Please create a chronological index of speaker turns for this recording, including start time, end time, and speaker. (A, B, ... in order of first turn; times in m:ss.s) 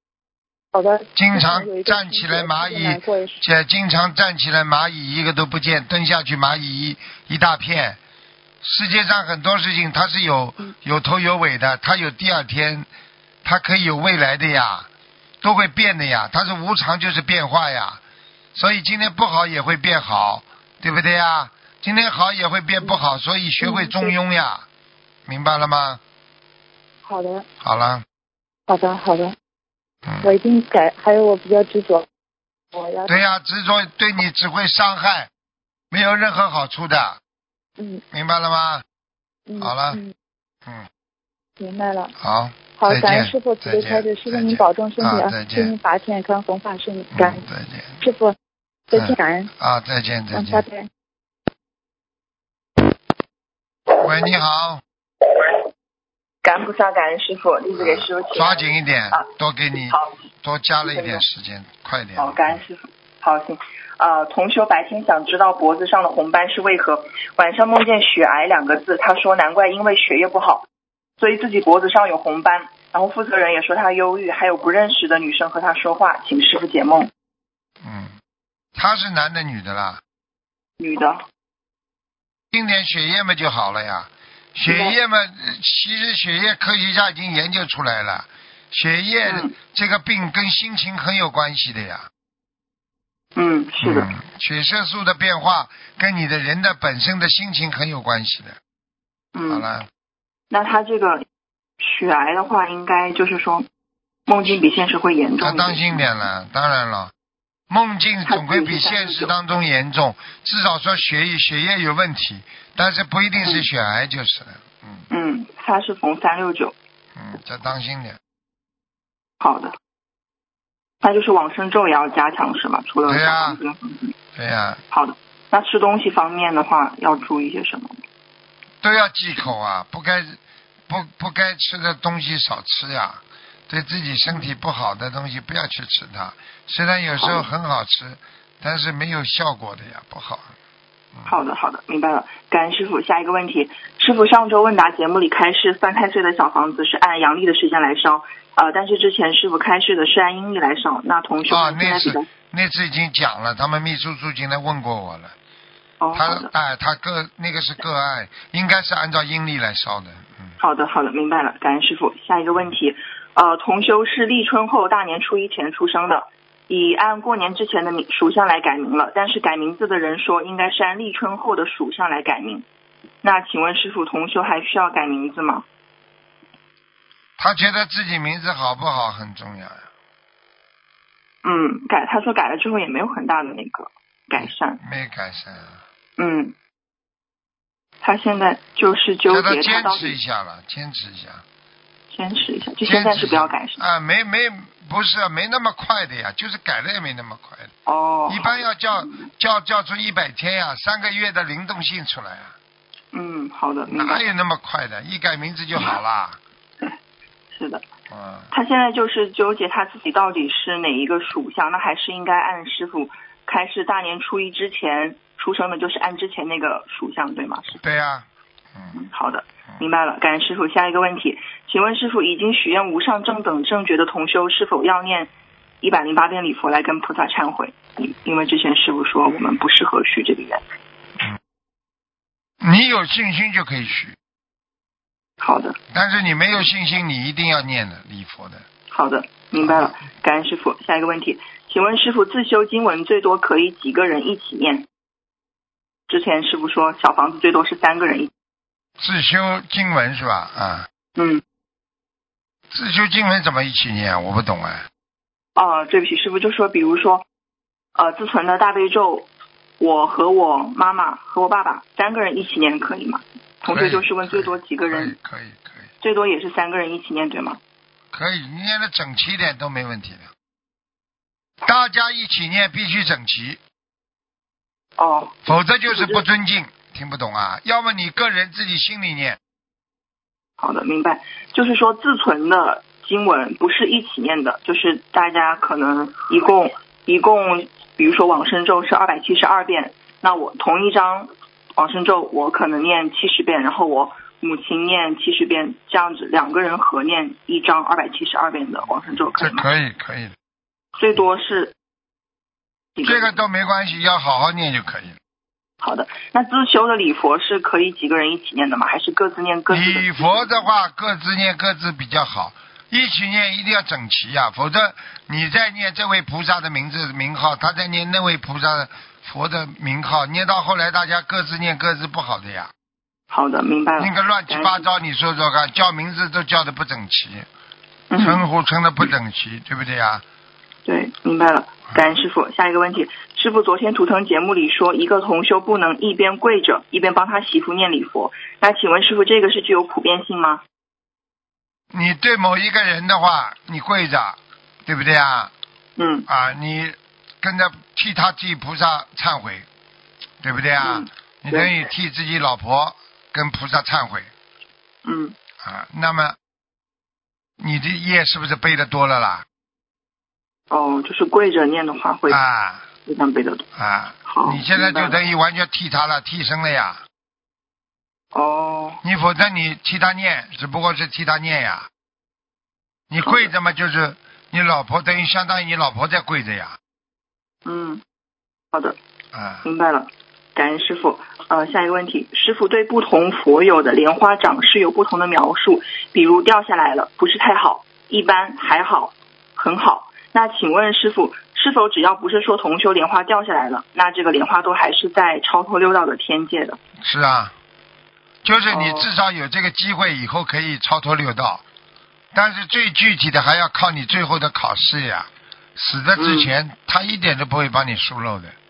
0:00.7-0:03.4 A
0:01.2-0:08.0 B
0:08.6-0:12.9 B
0:13.4-0:14.9 B
0:15.4-0:18.0 B
0:18.6-0:24.6 B
0:23.6-0:24.1 A
0:25.3-0:26.0 B
0:27.0-0:27.4 A
0:27.6-0:28.0 B
0:28.7-0:29.3 A
0:30.0-0:30.3 B
0:30.2-0:32.1 A
0:32.7-0:33.2 A
0:33.1-0:35.3 B
0:35.9-0:37.2 B
0:38.1-0:38.8 B
0:39.5-0:40.1 A
0:39.6-0:40.0 B
0:41.6-0:42.1 A
0:42.2-0:45.7 B
0:42.8-0:47.4 A
0:47.2-0:48.0 B
0:48.0-0:48.4 A
0:48.9-0:49.5 A
0:48.9-0:50.6 B
0:50.3-0:50.9 A
0:53.9-0:54.8 B
0:56.4-0:59.3 C
0:57.8-1:02.6 B
0:59.8-1:00.2 C
1:00.8-1:01.2 C
1:02.2-1:10.7 C
1:11.2-1:17.1 C
1:17.8-1:18.1 B
1:18.8-1:20.0 B
1:20.8-1:21.2 C
1:22.5-1:32.1 B
1:24.7-1:25.0 C
1:29.3-1:29.5 C
1:33.4-1:34.1 C
1:33.8-1:38.6 B
1:39.3-1:39.7 C
1:39.5-1:39.9 B
1:40.5-1:41.2 C
1:41.8-1:43.7 C
1:44.3-1:46.0 C
1:45.4-1:47.1 B
1:47.7-1:55.1 B
1:48.3-1:49.4 C
1:55.1-1:56.8 C
1:57.2-1:58.2 B
1:59.4-1:59.7 C
2:01.0-2:04.1 C
2:03.1-2:03.6 B
2:04.4-2:04.8 B
2:04.9-2:08.0 C
2:08.8-2:20.5 B
2:17.2-2:17.5 C
2:21.3-2:32.3 C
2:31.5-2:35.4 B
2:36.0-2:36.5 C
2:36.2-2:40.6 B
2:40.6-2:52.6 C
2:53.2-2:55.6 C
2:57.4-2:59.8 B
3:01.4-3:04.8 C
3:04.4-3:05.8 B
3:06.2-3:06.6 C
3:08.0-3:10.2 C
3:09.3-3:11.4 B
3:12.1-3:13.8 C
3:12.8-3:17.7 B
3:17.9-3:19.3 C
3:18.3-3:22.6 B
3:23.1-3:24.3 C
3:23.9-3:26.4 B
3:27.5-3:27.8 C
3:28.1-3:28.5 B
3:28.5-3:37.8 C
3:37.8-3:38.9 B
3:38.9-3:50.6 C
3:52.6-3:54.2 B
3:55.4-3:55.8 C
3:55.9-3:58.7 B
3:58.9-4:04.9 C
3:59.6-3:59.9 B
4:06.1-4:08.3 C
4:09.0-4:10.9 B
4:11.2-4:11.4 C
4:12.7-4:14.9 B
4:15.6-4:17.2 C
4:18.0-4:25.2 C
4:23.7-4:25.9 B
4:26.0-4:27.6 C
4:28.1-4:30.3 B
4:31.6-4:33.6 B
4:35.0-4:36.2 C
4:35.5-4:39.4 B
4:40.6-4:59.7 C
4:59.4-5:00.3 B
5:01.0-5:01.7 C
5:03.0-5:03.4 C
5:03.0-5:05.2 B
5:05.8-5:10.7 C
5:09.7-5:22.7 B
5:23.3-5:24.8 C
5:24.0-5:27.5 B
5:28.1-5:28.4 C
5:28.2-5:30.2 B
5:30.8-5:40.6 C
5:41.9-5:45.5 B
5:46.0-5:46.3 C
5:46.3-5:49.7 B
5:50.4-5:54.3 B
5:50.8-5:51.8 C
5:55.0-5:55.4 C
5:55.6-5:56.4 B
5:57.6-5:59.4 B
6:00.7-6:02.4 C
6:02.3-6:02.9 B
6:03.0-6:03.7 C
6:03.8-6:07.0 B
6:04.2-6:05.2 C
6:08.3-6:09.0 C
6:09.0-6:11.9 B
6:13.1-6:16.8 B
6:13.2-6:13.5 C
6:17.6-6:18.0 C
6:19.3-6:19.7 B
6:19.6-6:36.8 C
6:37.0-6:37.5 B
6:38.4-6:41.6 B
6:38.7-6:39.1 C
6:42.3-6:48.6 B
6:46.2-6:46.5 C